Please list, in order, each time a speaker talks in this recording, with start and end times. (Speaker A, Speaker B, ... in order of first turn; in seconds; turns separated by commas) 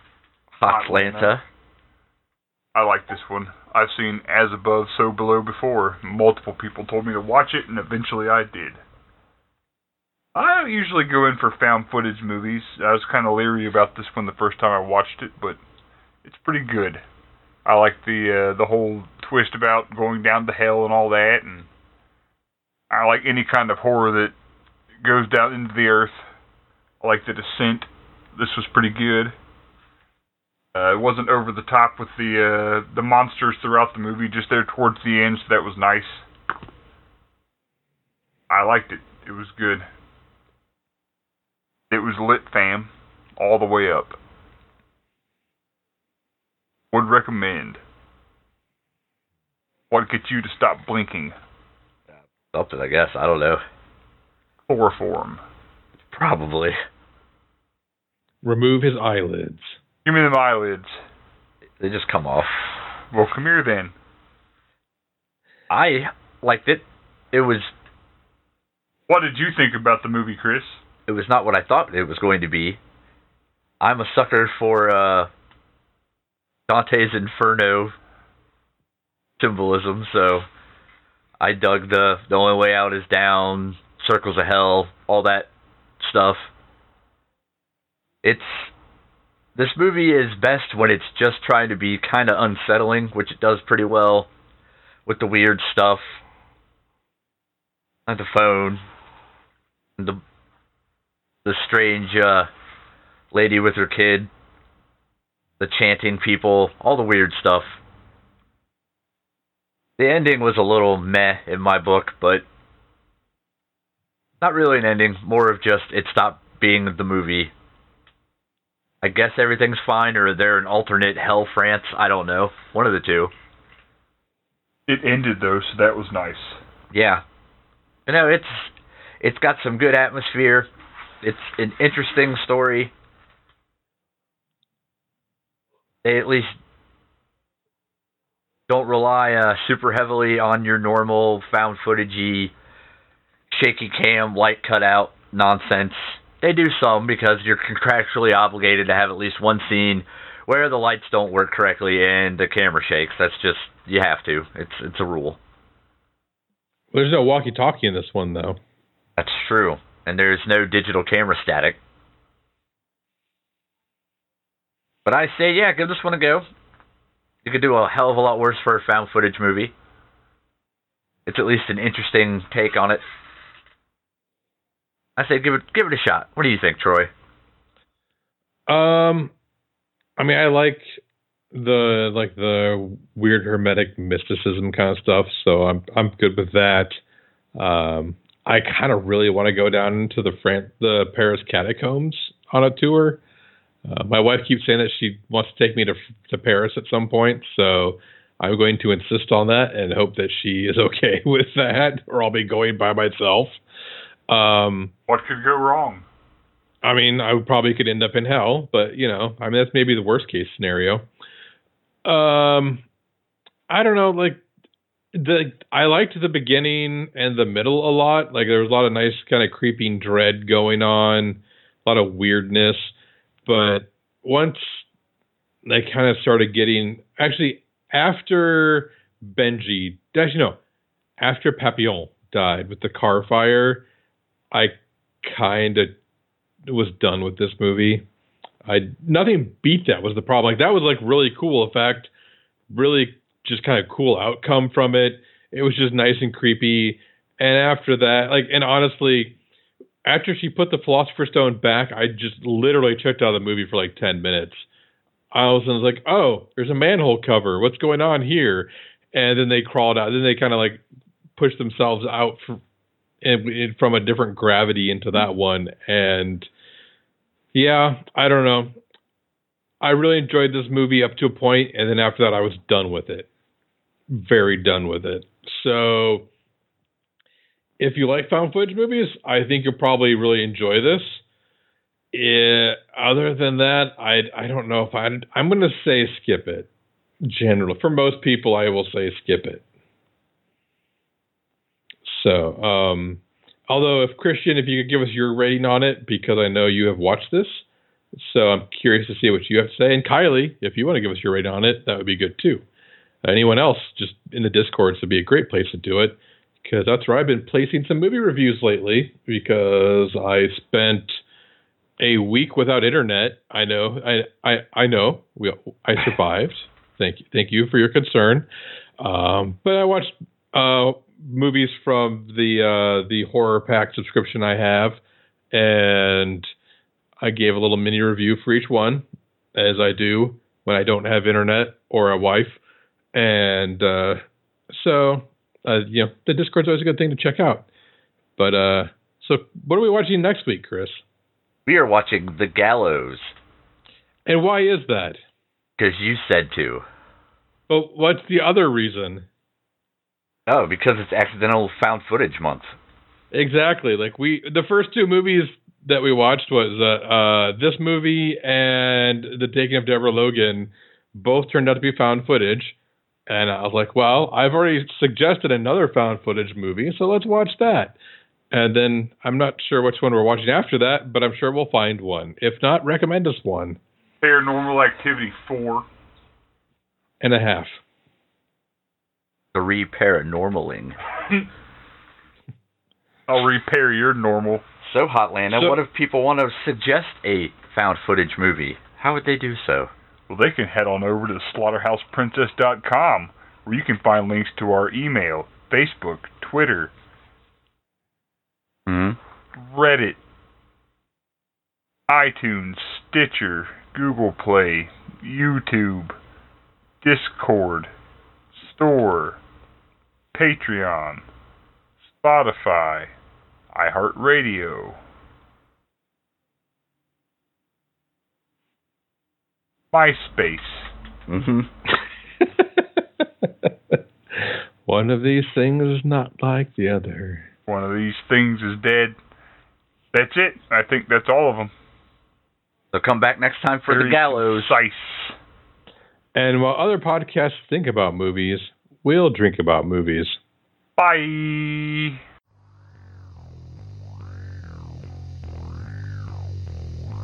Speaker A: 0.6-1.4, Speaker B: 0.7-1.4, Speaker B: 2.8-8.8, Speaker B: 10.3-15.6, Speaker B: 16.2-17.0, Speaker B: 17.6-21.7, Speaker B: 22.9-24.3, Speaker B: 25.0-26.3, Speaker B: 27.0-29.3, Speaker B: 30.7-36.2, Speaker B: 38.5-39.9, Speaker B: 41.9-44.2, Speaker B: 46.9-47.8, Speaker B: 49.9-51.4, Speaker A: 52.5-53.6, Speaker B: 54.7-55.4, Speaker A: 56.1-56.8, Speaker C: 58.4-59.8, Speaker B: 60.0-61.0, Speaker A: 61.8-62.5, Speaker B: 63.1-63.9, Speaker A: 65.7-67.7, Speaker B: 69.1-70.8, Speaker A: 71.1-72.8, Speaker A: 73.8-75.3, Speaker A: 76.7-78.0, Speaker A: 79.4-80.5, Speaker A: 81.4-85.5, Speaker A: 86.0-86.5, Speaker A: 88.2-88.7, Speaker A: 89.6-94.3, Speaker A: 95.1-96.2, Speaker A: 98.1-98.8, Speaker A: 101.5-102.5, Speaker A: 103.3-104.3, Speaker A: 105.6-107.8, Speaker A: 110.0-112.5, Speaker A: 114.4-117.5, Speaker A: 119.0-123.3, Speaker B: 124.9-126.6, Speaker A: 126.9-127.2, Speaker A: 128.1-130.7, Speaker A: 131.2-132.9, Speaker A: 136.0-136.6, Speaker A: 138.7-142.5, Speaker A: 143.5-155.4, Speaker C: 156.9-158.6, Speaker A: 159.2-161.8, Speaker A: 165.1-166.4, Speaker A: 167.4-169.7, Speaker A: 171.3-173.0, Speaker A: 175.2-177.1, Speaker C: 178.7-179.3, Speaker C: 180.2-181.0, Speaker C: 181.5-187.0, Speaker C: 187.6-193.2, Speaker C: 193.8-203.6, Speaker C: 204.3-204.9, Speaker B: 205.1-206.1, Speaker C: 206.8-211.1, Speaker C: 212.1-212.8, Speaker C: 213.7-214.4, Speaker C: 215.1-222.9, Speaker C: 223.5-224.9, Speaker C: 225.7-230.6, Speaker C: 231.2-233.8, Speaker C: 234.5-236.0, Speaker C: 236.7-238.1, Speaker C: 238.7-242.1, Speaker C: 242.7-249.4, Speaker C: 250.1-254.7, Speaker C: 255.3-260.8, Speaker C: 261.4-262.6, Speaker C: 263.2-266.5, Speaker C: 267.5-268.8, Speaker C: 269.8-273.3, Speaker C: 274.1-276.3, Speaker C: 277.8-281.2, Speaker C: 282.1-286.7, Speaker C: 287.2-289.6, Speaker C: 292.1-302.6, Speaker C: 303.2-311.2, Speaker C: 312.0-318.5, Speaker C: 319.0-325.0, Speaker C: 325.5-326.5, Speaker C: 327.2-332.6, Speaker C: 333.1-334.2, Speaker C: 334.7-337.7, Speaker C: 338.4-341.0, Speaker A: 341.7-343.3, Speaker C: 344.3-345.2, Speaker A: 345.8-346.8, Speaker C: 347.7-349.3, Speaker A: 350.5-352.8, Speaker C: 353.3-362.8, Speaker C: 363.3-368.0, Speaker C: 368.5-373.8, Speaker B: 374.2-375.9, Speaker C: 377.2-377.8, Speaker A: 379.5-381.0, Speaker B: 383.3-384.6, Speaker A: 384.8-389.9, Speaker B: 390.3-396.9, Speaker A: 398.9-399.2, Speaker B: 399.6-400.2, Speaker B: 402.1-406.2, Speaker B: 407.0-407.9, Speaker B: 408.5-409.4, Speaker B: 410.3-411.2, Speaker B: 412.1-413.1, Speaker B: 413.7-415.0, Speaker B: 419.9-420.9, Speaker A: 421.3-421.7, Speaker C: 422.8-427.5, Speaker B: 427.7-429.2, Speaker B: 430.1-431.7, Speaker A: 432.9-434.8, Speaker B: 433.9-435.4, Speaker C: 436.4-440.4, Speaker B: 441.0-442.2